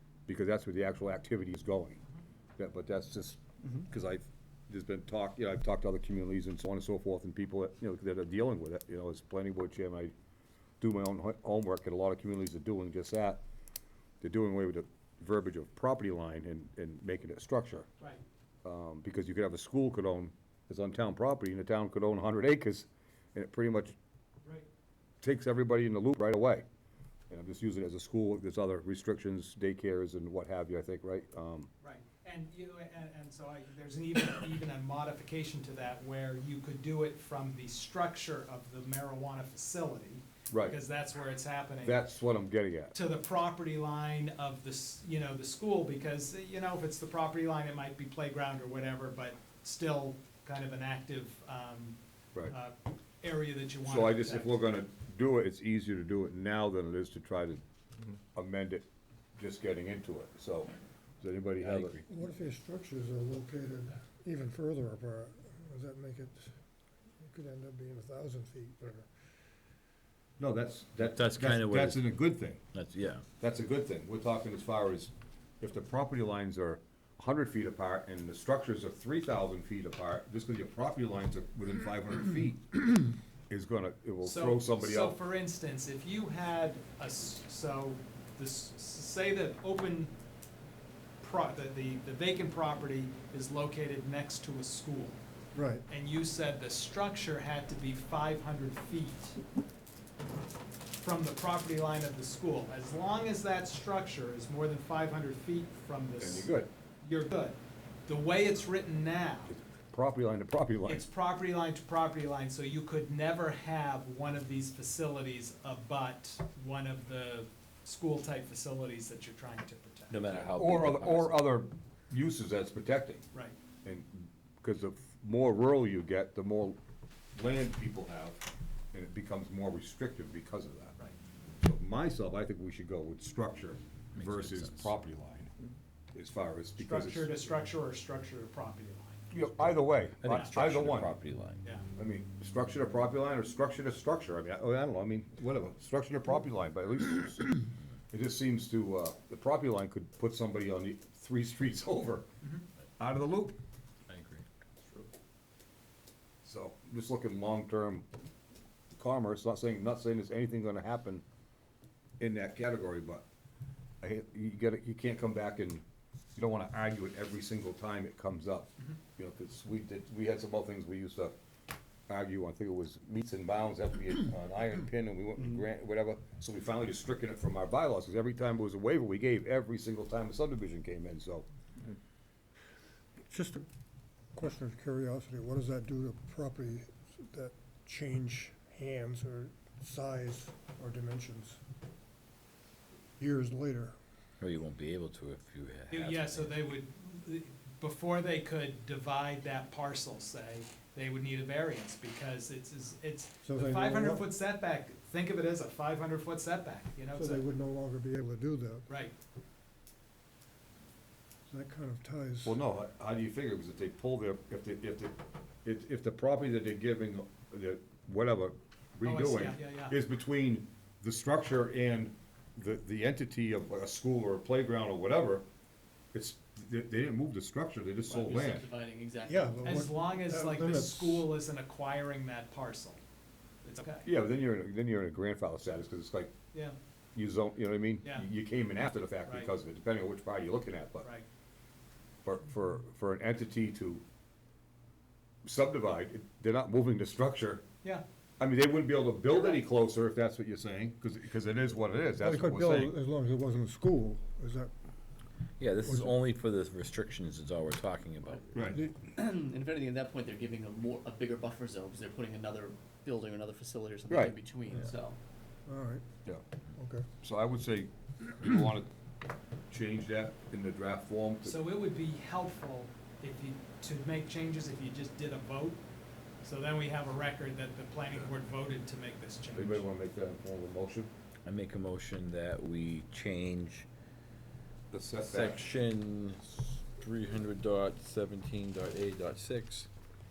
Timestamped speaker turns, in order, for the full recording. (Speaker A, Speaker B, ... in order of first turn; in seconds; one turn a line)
Speaker A: 0.3-2.0
Speaker A: 2.6-10.1
Speaker A: 10.8-13.4
Speaker A: 14.2-17.9
Speaker A: 18.6-24.0
Speaker A: 25.2-26.7
Speaker A: 27.3-31.7
Speaker B: 31.8-42.0
Speaker A: 40.5-40.8
Speaker A: 41.8-43.0
Speaker B: 42.9-54.6
Speaker A: 53.8-57.6
Speaker A: 58.3-58.9
Speaker A: 59.4-62.0
Speaker C: 61.6-62.0
Speaker D: 62.1-66.6
Speaker D: 67.2-69.1
Speaker A: 70.4-72.6
Speaker C: 71.0-72.0
Speaker C: 72.7-73.2
Speaker A: 73.4-83.0
Speaker A: 83.5-85.2
Speaker B: 84.2-90.1
Speaker B: 91.2-95.2
Speaker D: 95.5-95.8
Speaker B: 95.9-99.4
Speaker B: 101.0-109.5
Speaker A: 106.2-106.7
Speaker A: 109.5-111.1
Speaker B: 110.8-120.3
Speaker C: 120.1-121.4
Speaker A: 120.6-123.2
Speaker A: 123.8-126.8
Speaker A: 127.4-128.4
Speaker A: 128.9-131.0
Speaker A: 131.6-135.5
Speaker C: 134.2-134.9
Speaker A: 136.1-137.4
Speaker B: 136.8-139.2
Speaker A: 139.3-141.1
Speaker C: 140.2-141.6
Speaker A: 142.0-147.6
Speaker A: 148.1-152.3
Speaker A: 153.0-153.6
Speaker C: 154.1-154.4
Speaker A: 156.4-158.1
Speaker A: 158.9-161.2
Speaker A: 162.2-163.2
Speaker A: 164.0-165.8
Speaker A: 166.4-171.3
Speaker A: 172.1-181.5
Speaker D: 183.3-183.7
Speaker D: 184.3-191.6
Speaker D: 193.2-194.0
Speaker C: 194.4-196.6
Speaker B: 195.9-207.4
Speaker D: 203.4-204.2
Speaker D: 207.1-208.9
Speaker B: 208.9-209.1
Speaker D: 211.5-212.6
Speaker A: 212.4-225.4
Speaker B: 219.0-219.9
Speaker A: 226.1-228.7
Speaker E: 228.1-229.6
Speaker D: 229.3-231.3
Speaker B: 229.6-233.0
Speaker B: 233.6-234.1
Speaker A: 234.0-236.3
Speaker A: 237.2-241.1
Speaker B: 239.3-239.5
Speaker A: 242.2-244.0
Speaker A: 245.4-247.7
Speaker A: 248.4-252.9
Speaker D: 252.2-254.7
Speaker C: 255.6-258.5
Speaker D: 255.8-256.1
Speaker A: 258.5-258.8
Speaker D: 258.7-259.0
Speaker E: 259.1-265.2
Speaker A: 264.1-264.4
Speaker D: 265.7-266.1
Speaker D: 266.8-267.1
Speaker A: 267.2-268.9
Speaker A: 269.7-271.6
Speaker B: 271.4-275.8
Speaker B: 276.4-279.9
Speaker A: 279.5-281.1
Speaker C: 281.4-283.9
Speaker A: 284.9-285.7
Speaker C: 285.2-289.9